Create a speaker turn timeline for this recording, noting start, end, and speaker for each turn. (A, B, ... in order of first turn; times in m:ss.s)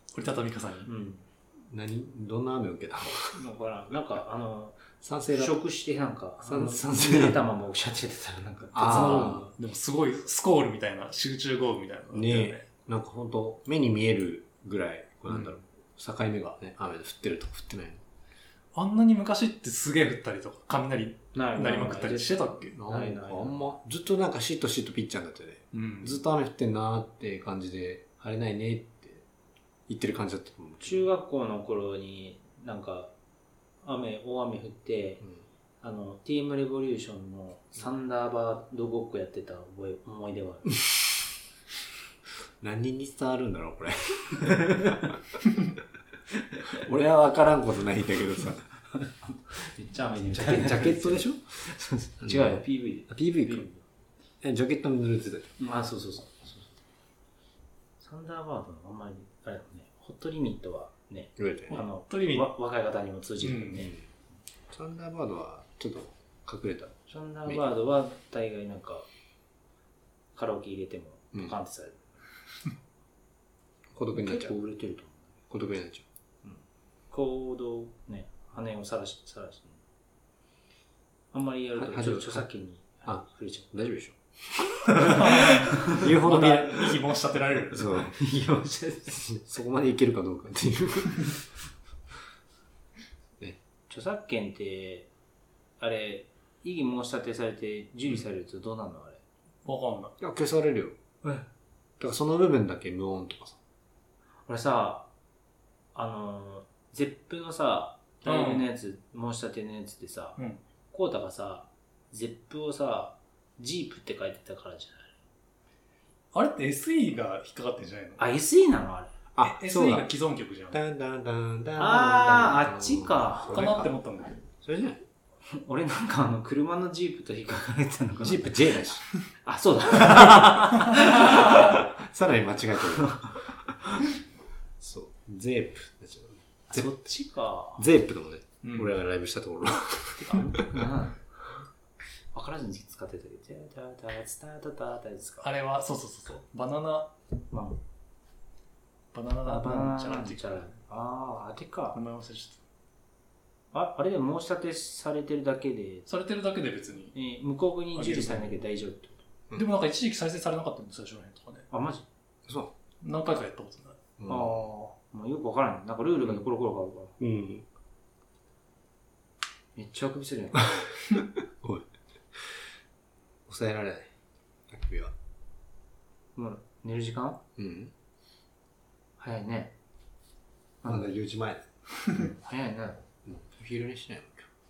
0:00.1-0:00.9 A
0:00.8-0:01.2 B
0:01.7-0:03.4 C
0:03.3-0:09.5 B
0:05.0-0:05.6 C
0:06.4-0:07.4 C
0:08.7-0:09.4 C
0:08.8-0:12.6 A
0:12.1-0:18.0 C
0:18.7-0:22.8 A
0:21.3-0:23.7 B
0:22.7-0:29.2 C
0:25.7-0:26.2 A
0:29.9-0:31.1 C
0:30.8-0:33.1 B
0:33.8-0:35.2 B
0:35.8-0:40.8 B
0:42.6-0:45.2 C
0:44.6-0:45.0 B
0:46.7-0:48.7 C
0:49.6-0:53.8 B
0:50.3-0:51.6 C
0:52.2-0:53.7 C
0:54.4-0:55.5 C
0:55.6-0:56.7 B
0:58.0-1:04.0 B
1:01.4-1:01.8 C
1:01.7-1:02.5 A
1:03.4-1:03.9 A
1:04.7-1:07.6 C
1:07.1-1:09.1 B
1:10.3-1:12.0 B
1:13.9-1:14.6 C
1:14.1-1:15.3 B
1:15.5-1:16.0 C
1:16.4-1:19.8 B
1:21.3-1:23.7 B
1:21.8-1:22.4 C
1:23.0-1:27.1 C
1:24.9-1:26.0 B
1:25.0-1:28.1 A
1:27.7-1:28.4 C
1:28.2-1:29.3 B
1:29.1-1:31.4 C
1:33.9-1:35.1 B
1:35.8-1:39.2 B
1:39.6-1:40.1 A
1:40.2-1:41.0 C
1:42.0-1:43.6 C
1:44.5-1:45.1 B
1:45.9-1:50.4 B
1:48.2-1:48.6 A
1:50.9-1:55.1 B
1:56.3-1:58.2 A
1:58.2-1:59.1 B
1:59.4-2:00.1 C
1:59.4-2:00.8 A
2:00.7-2:03.9 C
2:01.8-2:03.7 B
2:03.5-2:04.4 A
2:04.6-2:05.0 C
2:05.5-2:08.6 B
2:08.2-2:09.0 C
2:09.4-2:11.8 B
2:11.0-2:13.2 C
2:13.0-2:13.3 B
2:14.8-2:16.9 C
2:16.7-2:17.8 B
2:17.8-2:20.8 C
2:18.6-2:18.9 A
2:20.2-2:21.2 B
2:22.3-2:25.5 B
2:25.4-2:27.1 A
2:27.5-2:27.8 B
2:29.1-2:30.7 A
2:29.4-2:32.0 B
2:31.9-2:32.6 A
2:33.7-2:36.1 B
2:36.1-2:37.1 A
2:37.1-2:39.3 B
2:38.0-2:38.6 A
2:39.5-2:41.6 A
2:41.7-2:42.0 B
2:42.5-2:42.7 C
2:43.0-2:44.0 A
2:44.2-2:44.6 C
2:44.3-2:47.2 B
2:47.2-2:47.6 C
2:49.8-2:50.8 B
2:51.1-2:51.8 C
2:53.5-2:54.1 C
2:54.7-2:55.1 C
2:56.4-2:57.4 B
2:57.6-2:57.9 C
2:59.2-2:59.7 B
3:00.8-3:01.1 B
3:00.8-3:01.7 C
3:02.1-3:03.0 B
3:03.2-3:04.5 C